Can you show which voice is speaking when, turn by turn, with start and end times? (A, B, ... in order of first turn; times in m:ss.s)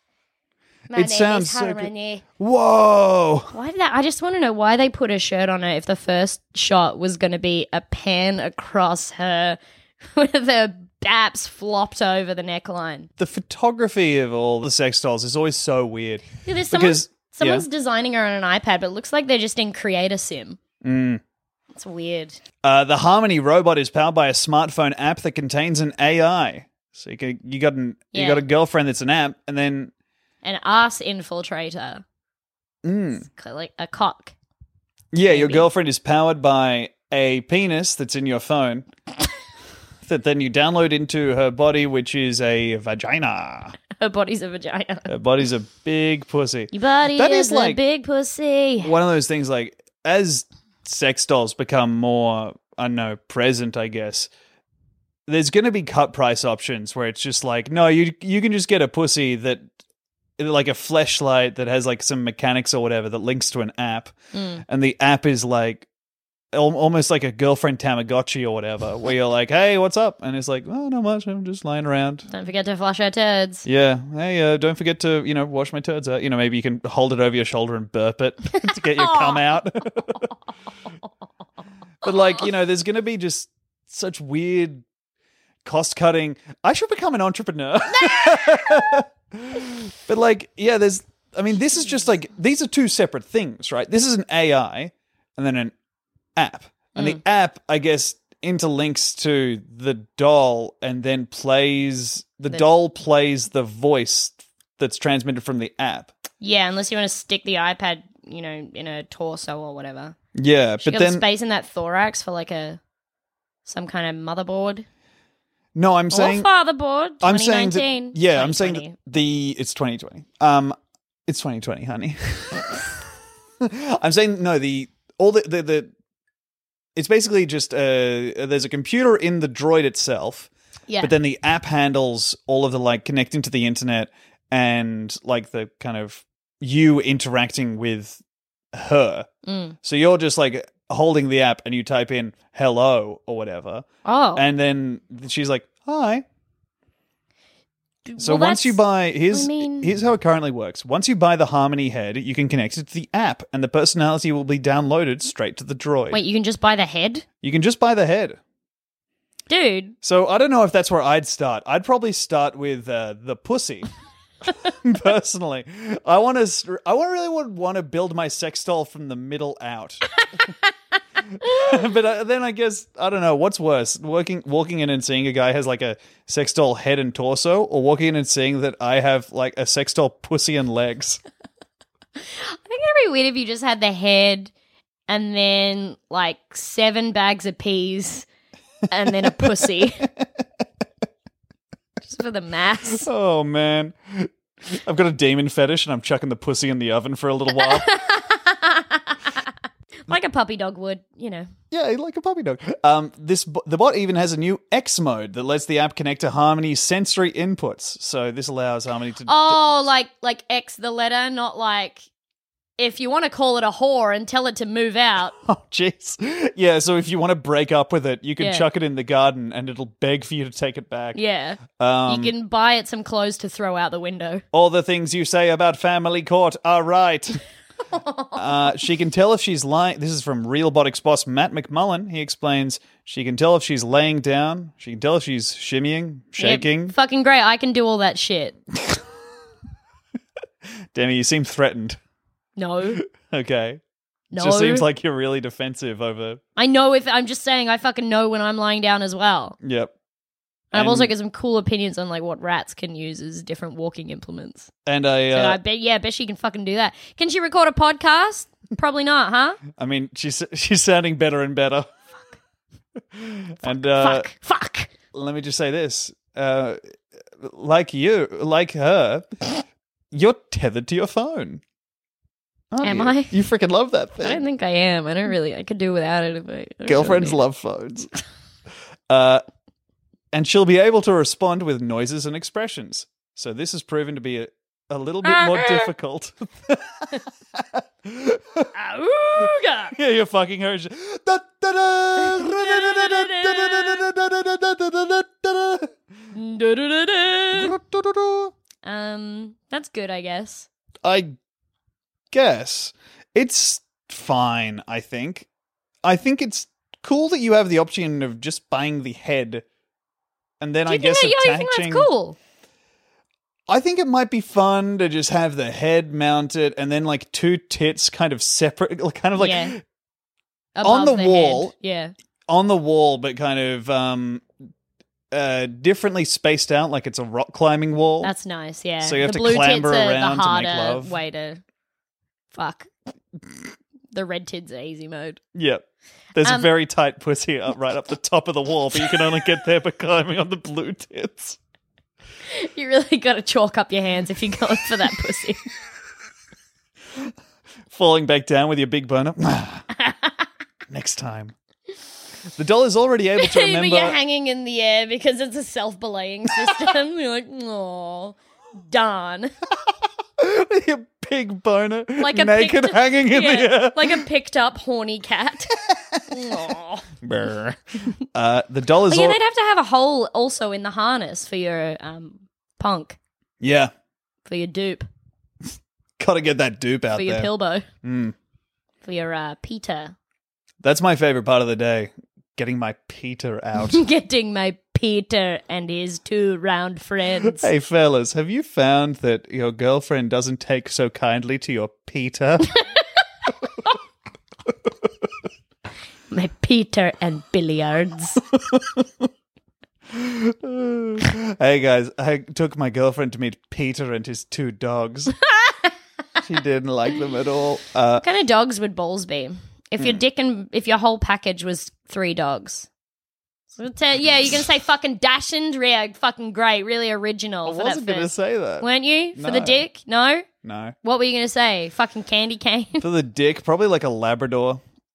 0:00.9-0:02.2 A
0:00.9-0:03.5 B
0:03.5-0:13.1 A
0:13.2-0:17.7 B
0:16.4-0:20.6 A
0:20.8-0:21.2 B
0:21.7-0:22.4 A
0:22.6-0:29.9 B
0:28.1-0:28.4 A
0:30.4-0:32.0 A
0:32.8-0:33.2 B
0:33.2-0:34.3 A
0:35.1-0:38.9 B
0:35.3-0:35.7 A
0:40.0-0:43.8 B
0:44.0-0:45.1 A
0:45.1-0:47.8 B
0:46.7-0:49.0 A
0:48.8-0:54.3 B
0:55.3-0:59.7 B
1:00.4-1:04.1 B
1:04.3-1:04.6 A
1:04.7-1:05.9 B
1:06.5-1:12.3 B
1:12.3-1:13.6 A
1:13.6-1:20.2 B
1:19.0-1:19.4 A
1:22.0-1:24.8 B
1:25.6-1:35.7 B
1:36.4-1:46.1 B
1:37.0-1:37.2 A
1:46.4-1:50.2 A
1:50.4-1:51.3 B
1:50.8-1:52.8 A
1:53.7-1:54.9 A
1:55.8-1:56.5 B
1:56.1-1:59.0 A
1:57.2-2:02.7 B
2:03.6-2:05.9 B
2:07.0-2:10.5 B
2:10.9-2:11.2 A
2:11.0-2:18.2 B
2:18.7-2:19.3 B
2:19.5-2:19.8 A
2:19.8-2:26.2 B
2:24.0-2:24.4 A
2:28.1-2:29.9 A
2:28.2-2:36.2 B
2:36.1-2:37.2 A
2:37.4-2:38.4 B
2:39.5-2:40.0 A
2:40.0-2:43.9 B
2:44.7-2:50.0 B
2:51.4-3:01.2 B
3:02.2-3:04.5 A
3:05.1-3:08.3 A
3:08.9-3:10.1 A
3:12.1-3:13.1 A
3:13.0-3:17.9 B
3:17.5-3:19.3 A
3:20.1-3:21.5 A
3:21.7-3:29.6 B
3:29.3-3:32.0 A
3:32.8-3:35.4 A
3:35.4-3:41.2 B
3:38.4-3:38.7 A
3:41.2-3:44.4 A
3:41.7-3:42.3 B
3:44.5-3:47.4 B
3:47.9-3:48.7 A
3:48.4-3:57.0 B
3:56.4-3:58.6 A
3:58.7-3:59.0 B
4:00.9-4:02.0 B
4:02.6-4:03.0 A
4:02.9-4:03.8 B
4:04.3-4:04.9 A
4:04.4-4:06.4 B
4:06.6-4:09.6 A
4:09.6-4:09.9 B
4:10.7-4:14.7 A
4:10.7-4:11.1 B
4:14.9-4:15.6 B
4:15.3-4:19.6 A
4:19.7-4:21.9 B
4:23.0-4:24.3 B
4:23.6-4:24.9 A
4:25.1-4:26.8 B
4:27.4-4:29.3 B
4:30.1-4:31.6 B
4:32.7-4:34.4 B
4:32.8-4:33.4 A
4:34.2-4:37.4 A
4:36.9-4:38.1 B
4:39.1-4:39.4 B
4:40.3-4:48.7 B
4:45.2-4:45.9 A
4:48.7-4:50.0 A
4:49.9-4:55.9 B
4:52.2-4:54.0 A
4:56.3-4:57.8 A
4:57.5-4:58.5 B
4:58.8-5:00.7 A
5:01.0-5:01.4 B
5:02.3-5:05.5 B
5:06.0-5:09.6 B
5:10.6-5:12.1 B
5:10.9-5:12.4 A
5:13.7-5:19.8 B
5:19.4-5:19.8 A
5:20.8-5:22.1 A
5:20.8-5:21.7 B
5:22.5-5:24.5 B
5:25.3-5:28.3 B
5:28.2-5:31.6 A
5:29.0-5:31.2 B
5:32.5-5:32.9 A
5:34.1-5:35.4 A
5:35.6-5:41.6 B
5:36.4-5:36.7 A
5:42.5-5:45.6 A
5:47.9-5:49.9 B
5:50.0-5:50.4 A
5:50.9-5:51.6 B
5:52.6-5:54.2 B
5:53.4-5:59.5 A
6:00.4-6:04.2 B
6:02.2-6:05.7 A
6:05.7-6:09.4 B
6:06.3-6:07.1 A
6:09.1-6:13.2 A
6:13.6-6:13.9 B
6:14.5-6:15.1 A
6:16.2-6:17.5 B
6:17.2-6:17.9 A
6:18.0-6:18.4 B
6:19.0-6:20.2 A
6:20.8-6:24.0 B
6:23.8-6:27.7 A
6:27.4-6:32.8 B
6:36.3-6:38.4 A
6:38.5-6:39.3 B
6:40.1-6:45.4 B
6:46.4-6:48.2 B
6:48.2-6:52.9 A
6:53.8-7:00.5 A
6:57.6-6:59.8 B
7:00.6-7:01.0 B
7:01.0-7:03.0 A
7:03.0-7:04.8 B